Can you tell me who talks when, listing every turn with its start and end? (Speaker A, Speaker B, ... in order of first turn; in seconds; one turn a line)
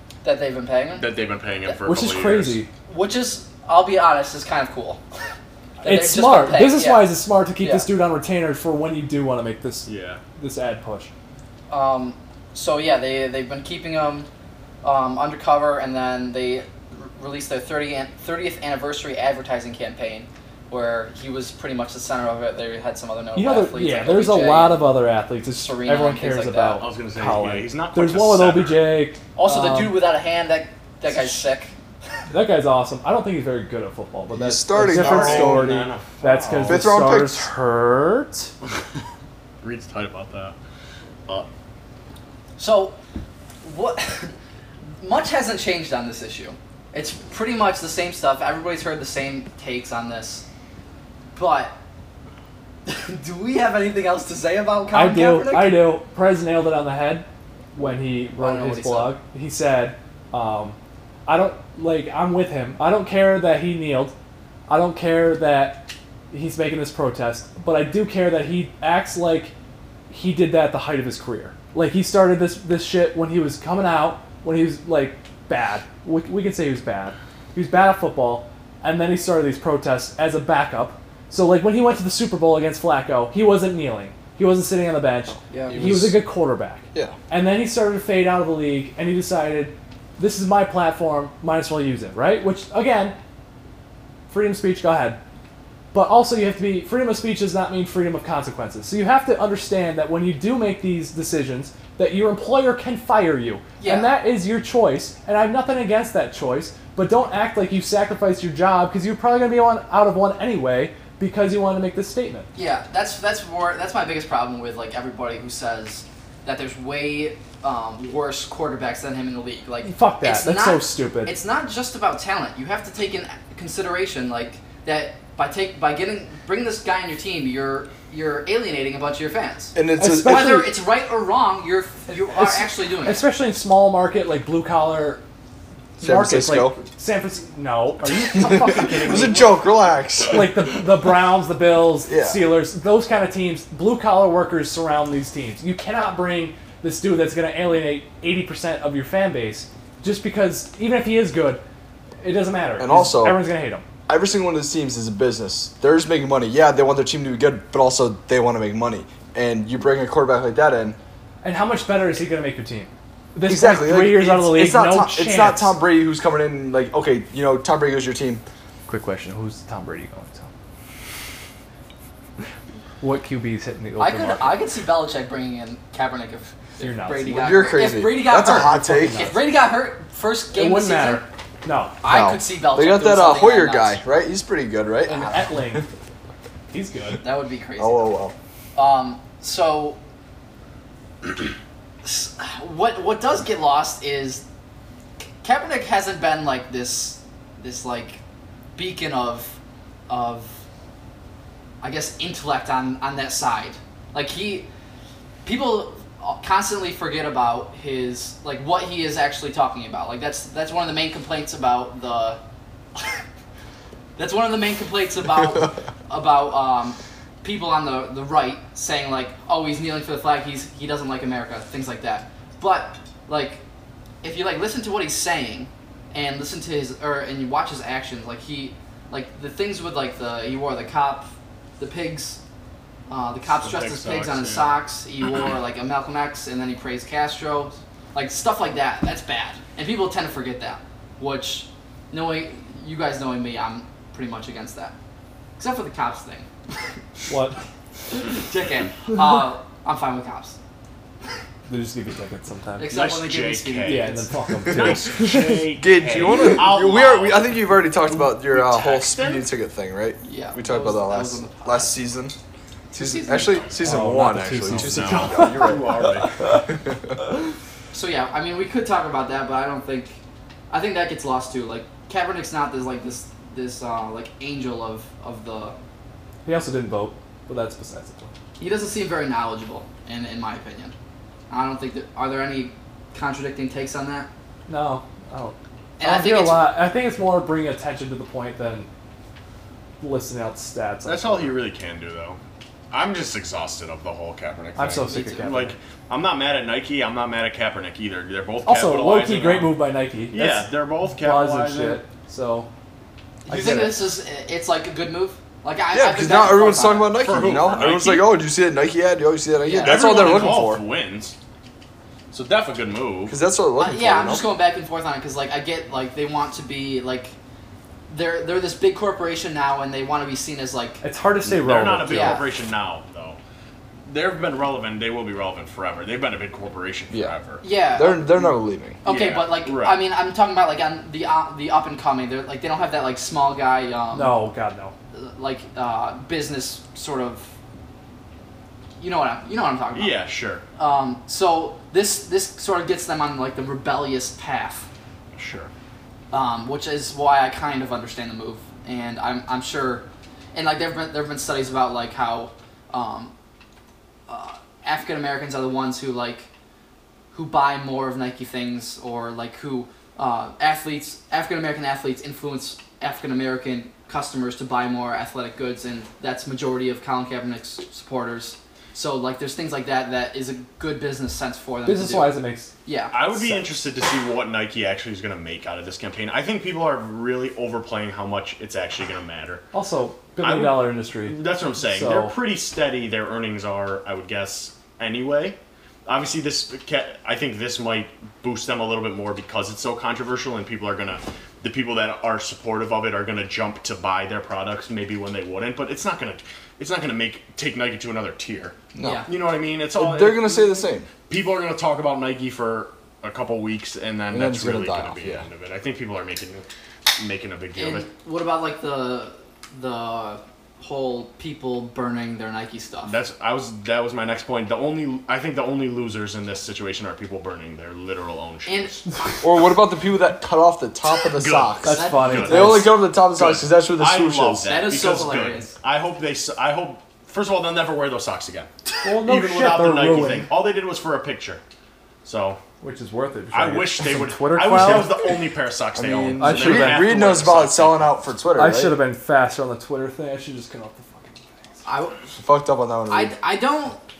Speaker A: 0.2-1.1
Speaker B: 1.0-2.6
Speaker C: 1.9-2.7
Speaker A: 2.9-5.0
Speaker A: 5.8-7.9
Speaker C: 5.8-11.1
Speaker B: 9.9-10.2
Speaker A: 11.7-14.3
Speaker A: 14.8-24.9
Speaker C: 23.4-30.1
Speaker A: 25.5-26.9
Speaker B: 26.8-29.0
Speaker A: 29.4-31.7
Speaker C: 31.1-31.4
Speaker C: 32.3-38.5
Speaker D: 34.3-35.9
Speaker B: 34.9-36.9
Speaker D: 36.6-37.5
Speaker B: 39.6-40.5
Speaker A: 42.6-43.0
Speaker A: 43.6-44.3
Speaker A: 45.0-50.5
Speaker A: 51.4-51.8
Speaker A: 52.9-55.9
Speaker C: 54.9-64.1
Speaker A: 58.4-59.2
Speaker C: 64.7-69.5
Speaker C: 70.1-93.2
Speaker A: 85.5-86.0
Speaker B: 85.7-86.1
Speaker C: 94.3-95.2
Speaker C: 95.9-112.5
Speaker A: 103.8-104.1
Speaker A: 112.5-133.2
Speaker C: 119.8-121.3
Speaker D: 129.8-130.7
Speaker C: 130.0-130.7
Speaker C: 132.3-135.2
Speaker D: 136.0-136.8
Speaker C: 136.0-139.6
Speaker D: 138.3-140.9
Speaker C: 140.2-151.6
Speaker D: 142.1-142.4
Speaker C: 152.2-153.8
Speaker D: 152.8-153.4
Speaker D: 154.1-161.0
Speaker C: 161.4-165.8
Speaker D: 163.5-168.4
Speaker C: 168.9-170.5
Speaker C: 173.0-174.6
Speaker A: 174.0-181.2
Speaker C: 176.8-177.5
Speaker D: 177.3-179.4
Speaker C: 178.4-179.5
Speaker C: 180.5-182.0
Speaker A: 182.0-184.0
Speaker D: 182.0-185.5
Speaker C: 185.1-185.9
Speaker C: 186.7-187.2
Speaker A: 187.2-188.2
Speaker D: 187.8-188.3
Speaker A: 188.8-190.0
Speaker A: 191.2-191.5
Speaker A: 192.0-194.4
Speaker A: 195.4-198.2
Speaker A: 198.8-199.6
Speaker A: 200.1-200.6
Speaker A: 201.8-204.7
Speaker A: 205.4-212.4
Speaker A: 214.2-223.6
Speaker A: 224.2-232.4
Speaker A: 233.1-245.0
Speaker B: 233.5-234.8
Speaker A: 245.6-246.5
Speaker C: 247.3-247.6
Speaker A: 248.1-250.6
Speaker C: 251.7-252.9
Speaker A: 252.8-254.3
Speaker B: 252.9-254.1
Speaker C: 253.8-255.7
Speaker B: 254.7-259.5
Speaker D: 255.7-262.4
Speaker A: 260.2-262.0
Speaker A: 262.9-263.7
Speaker D: 262.9-267.0
Speaker B: 263.4-263.8
Speaker C: 263.8-265.8
Speaker B: 264.6-266.4
Speaker A: 267.9-270.2
Speaker A: 270.7-275.8
Speaker C: 276.4-278.3
Speaker A: 278.6-280.9
Speaker A: 281.5-284.3
Speaker C: 284.7-288.9
Speaker A: 286.0-286.7
Speaker C: 290.0-291.6
Speaker B: 291.1-292.4
Speaker B: 292.9-299.7
Speaker C: 294.8-295.8
Speaker A: 295.1-295.5
Speaker C: 298.6-302.7
Speaker B: 300.3-302.0
Speaker A: 303.4-307.8
Speaker C: 303.5-304.1
Speaker D: 305.9-310.8
Speaker B: 307.1-308.4
Speaker A: 309.6-310.6
Speaker B: 309.7-311.4
Speaker B: 312.3-313.4
Speaker D: 313.3-314.5
Speaker A: 313.8-317.3
Speaker A: 318.1-321.0
Speaker C: 321.0-322.4
Speaker B: 321.4-323.4
Speaker A: 322.0-322.5
Speaker B: 324.1-327.6
Speaker A: 327.6-334.4
Speaker D: 327.9-329.0
Speaker B: 329.0-330.0
Speaker C: 334.1-334.9
Speaker A: 335.1-337.5
Speaker A: 339.0-340.1
Speaker B: 339.9-340.6
Speaker A: 340.8-344.9
Speaker B: 345.3-345.7
Speaker A: 346.3-353.3
Speaker A: 354.3-356.5
Speaker A: 357.3-373.6
Speaker C: 371.9-372.7
Speaker B: 373.1-379.6
Speaker C: 379.7-382.4
Speaker B: 380.4-400.7
Speaker D: 398.9-399.3
Speaker A: 399.0-399.3
Speaker D: 399.9-401.1
Speaker B: 401.3-406.7
Speaker D: 404.3-405.4
Speaker B: 407.2-408.1
Speaker A: 407.8-413.1
Speaker B: 413.1-419.0
Speaker A: 418.7-419.0
Speaker D: 419.4-424.7
Speaker B: 421.3-431.6
Speaker C: 421.8-422.9
Speaker A: 421.9-422.8
Speaker A: 424.6-425.7
Speaker C: 429.0-430.5
Speaker B: 432.2-432.6
Speaker C: 432.8-435.2
Speaker B: 433.5-438.2
Speaker D: 435.9-439.0
Speaker C: 436.4-437.2
Speaker C: 438.6-441.8
Speaker A: 441.9-442.4
Speaker D: 442.4-443.3
Speaker A: 443.1-444.0